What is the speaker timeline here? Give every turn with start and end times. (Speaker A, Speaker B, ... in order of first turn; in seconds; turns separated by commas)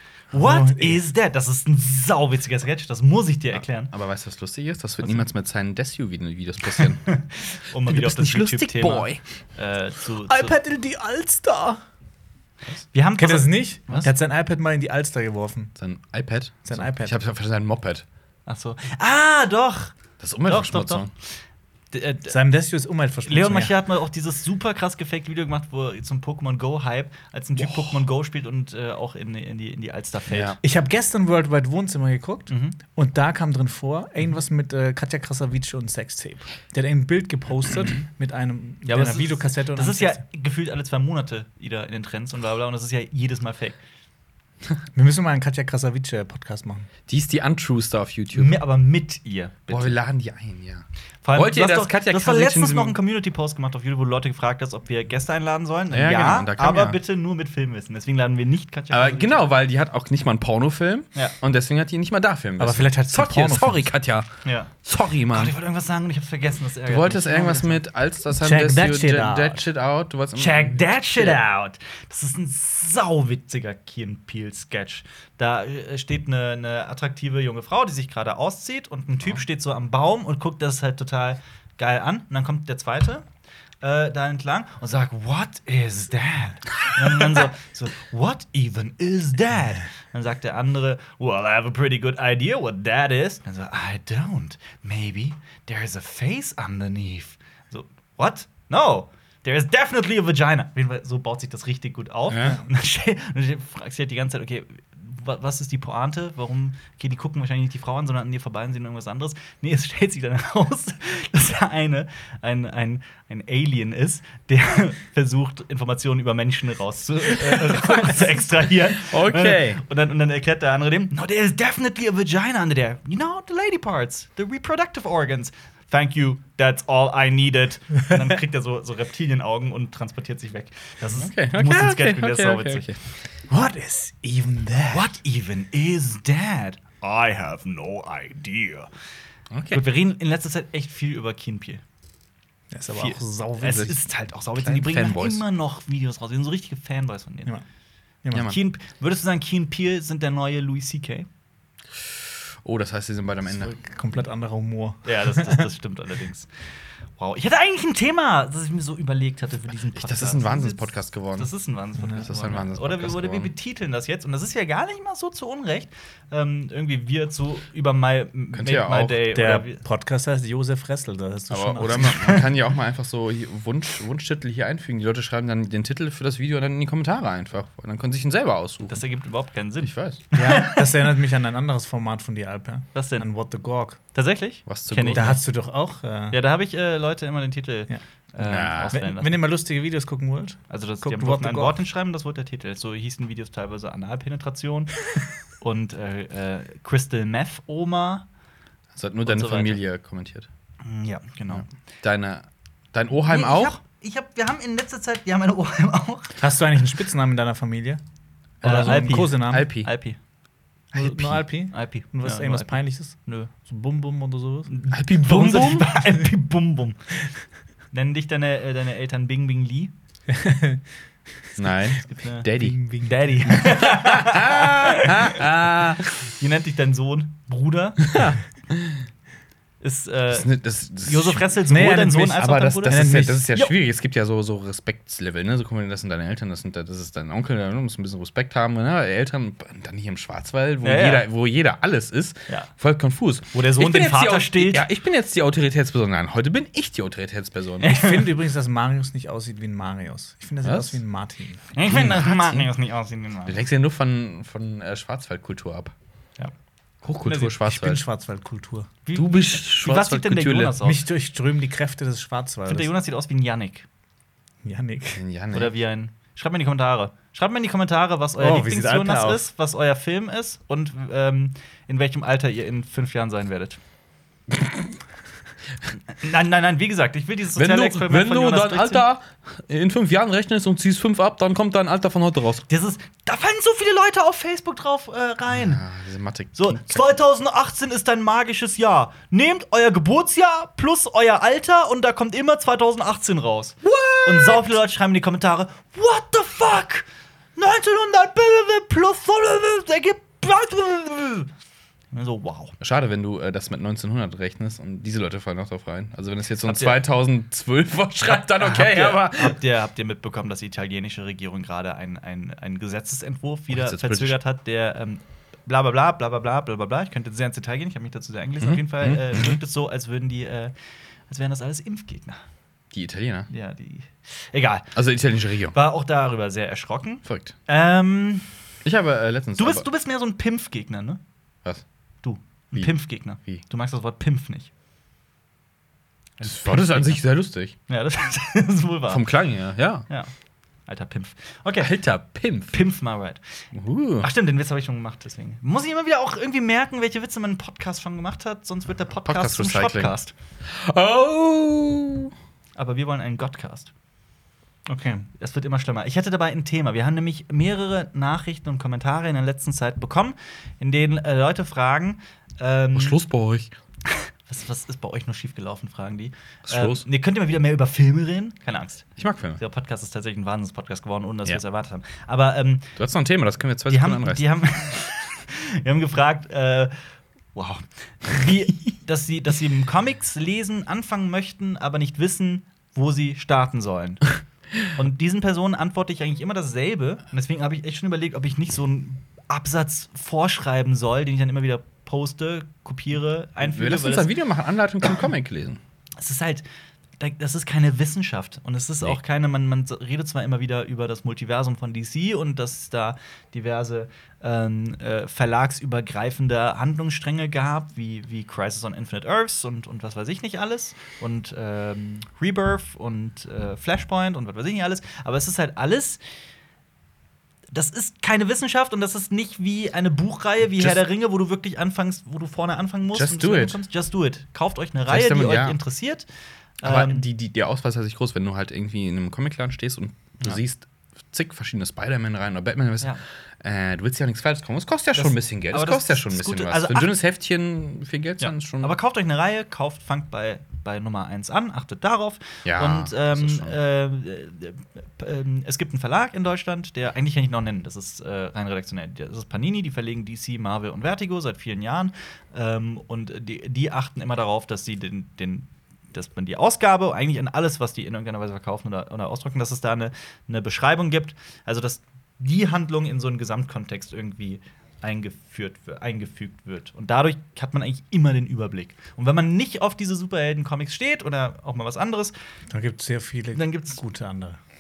Speaker A: 0.3-3.9, Speaker B: 0.3-1.0, Speaker C: 3.5-7.1, Speaker A: 6.7-10.5, Speaker C: 7.8-9.2, Speaker B: 10.3-11.8, Speaker A: 12.9-14.1, Speaker B: 13.2-15.7, Speaker C: 15.8-18.0, Speaker B: 16.6-17.2, Speaker A: 18.4-19.9, Speaker C: 20.2-21.1, Speaker A: 20.4-21.1, Speaker A: 21.9-22.4, Speaker B: 22.3-23.7, Speaker A: 23.2-30.6, Speaker C: 27.6-28.0, Speaker C: 30.3-30.6, Speaker B: 30.6-40.2, Speaker A: 32.5-32.8, Speaker A: 38.9-43.8, Speaker B: 44.9-46.9, Speaker C: 47.1-48.6, Speaker A: 48.3-50.0, Speaker C: 49.7-53.0, Speaker A: 51.2-59.5, Speaker C: 55.9-57.0, Speaker C: 58.9-64.3, Speaker B: 62.6-63.9, Speaker A: 64.4-64.7, Speaker C: 64.8-65.5, Speaker A: 65.3-67.8, Speaker C: 66.8-71.4, Speaker B: 68.3-69.7, Speaker A: 70.3-83.2, Speaker A: 83.8-132.9, Speaker C: 102.3-102.6, Speaker C: 119.0-119.8, Speaker C: 131.2-133.0, Speaker B: 133.5-135.2, Speaker A: 134.9-138.9, Speaker C: 139.5-139.8, Speaker A: 139.7-141.8, Speaker B: 142.7-144.0, Speaker A: 142.9-147.6, Speaker C: 144.5-145.4, Speaker B: 148.2-148.5, Speaker A: 148.3-151.3, Speaker C: 152.6-153.7, Speaker B: 153.5-155.7, Speaker A: 155.0-156.5, Speaker A: 157.2-160.8, Speaker C: 159.9-161.5, Speaker A: 161.3-169.8, Speaker C: 162.1-163.5, Speaker C: 168.5-169.2, Speaker B: 169.3-172.4, Speaker C: 171.5-179.0, Speaker A: 172.1-172.4, Speaker A: 178.9-181.0, Speaker C: 179.8-180.2, Speaker B: 180.3-184.0, Speaker A: 182.9-183.3, Speaker A: 184.1-185.4, Speaker C: 184.7-185.4, Speaker B: 185.1-186.4, Speaker A: 186.3-189.4, Speaker C: 188.4-189.0, Speaker B: 188.9-191.8, Speaker A: 190.7-194.9, Speaker A: 195.6-198.2, Speaker C: 198.9-200.5, Speaker A: 199.2-199.8, Speaker A: 200.8-201.7, Speaker C: 201.5-203.8, Speaker A: 203.2-206.4, Speaker B: 206.4-208.0, Speaker B: 208.6-209.7, Speaker C: 208.6-209.9, Speaker A: 208.6-210.2, Speaker C: 210.9-211.4, Speaker B: 210.9-214.7, Speaker A: 211.7-213.5, Speaker A: 214.7-217.0, Speaker C: 214.9-215.8, Speaker A: 217.9-219.9, Speaker B: 220.3-220.8, Speaker C: 221.6-222.8, Speaker A: 222.0-222.5, Speaker B: 222.6-223.6, Speaker A: 223.0-225.4, Speaker C: 223.8-226.0, Speaker A: 226.2-228.2, Speaker C: 228.1-228.9, Speaker A: 229.8-230.5, Speaker C: 230.3-231.6, Speaker A: 231.0-233.7, Speaker B: 231.7-233.4, Speaker C: 232.3-248.0, Speaker A: 240.8-241.2, Speaker A: 243.5-244.8, Speaker A: 247.8-248.3, Speaker B: 247.8-251.6, Speaker C: 250.6-251.0, Speaker A: 251.7-253.6, Speaker C: 251.9-252.7, Speaker C: 253.4-255.9, Speaker C: 257.0-258.0, Speaker A: 257.2-257.6, Speaker B: 257.6-258.9, Speaker A: 259.1-261.1, Speaker C: 259.1-260.8, Speaker B: 260.8-262.9, Speaker A: 262.7-263.9, Speaker B: 264.6-265.2, Speaker C: 265.1-265.7, Speaker A: 265.5-273.8, Speaker B: 268.4-269.4, Speaker A: 276.1-279.0, Speaker C: 277.6-282.6, Speaker A: 282.7-285.8, Speaker C: 285.5-287.1, Speaker A: 286.6-301.5, Speaker C: 293.8-294.7, Speaker A: 302.1-302.7, Speaker C: 302.8-309.6, Speaker A: 306.6-307.0, Speaker A: 308.3-320.7, Speaker C: 313.7-314.4, Speaker C: 318.6-319.6, Speaker A: 321.3-322.4, Speaker C: 322.9-323.5, Speaker A: 323.5-324.9, Speaker C: 324.9-325.7, Speaker A: 325.7-328.5, Speaker C: 327.2-327.6, Speaker C: 328.8-329.9, Speaker A: 329.6-331.2, Speaker A: 332.2-334.7, Speaker A: 336.4-337.2, Speaker C: 336.4-337.7, Speaker A: 337.9-339.2, Speaker C: 339.1-340.1, Speaker A: 340.9-341.9, Speaker C: 341.8-342.8, Speaker A: 342.7-343.4, Speaker C: 343.7-344.3, Speaker A: 344.2-350.3, Speaker C: 349.2-352.3, Speaker A: 352.8-353.9, Speaker B: 354.9-355.3, Speaker A: 355.4-363.2, Speaker C: 362.9-363.7, Speaker A: 364.1-372.9, Speaker C: 366.7-367.0, Speaker C: 369.2-369.6, Speaker C: 373.0-374.4, Speaker A: 373.9-376.9, Speaker A: 377.5-394.3, Speaker C: 393.6-395.8, Speaker A: 396.2-396.6, Speaker A: 397.2-416.2, Speaker A: 417.7-426.2, Speaker C: 420.8-421.0, Speaker C: 423.1-423.8, Speaker C: 425.1-425.8, Speaker A: 426.8-427.2, Speaker C: 426.8-438.9, Speaker A: 435.1-437.1, Speaker A: 438.4-472.3, Speaker C: 442.6-443.8, Speaker B: 472.7-474.6, Speaker A: 473.5-474.0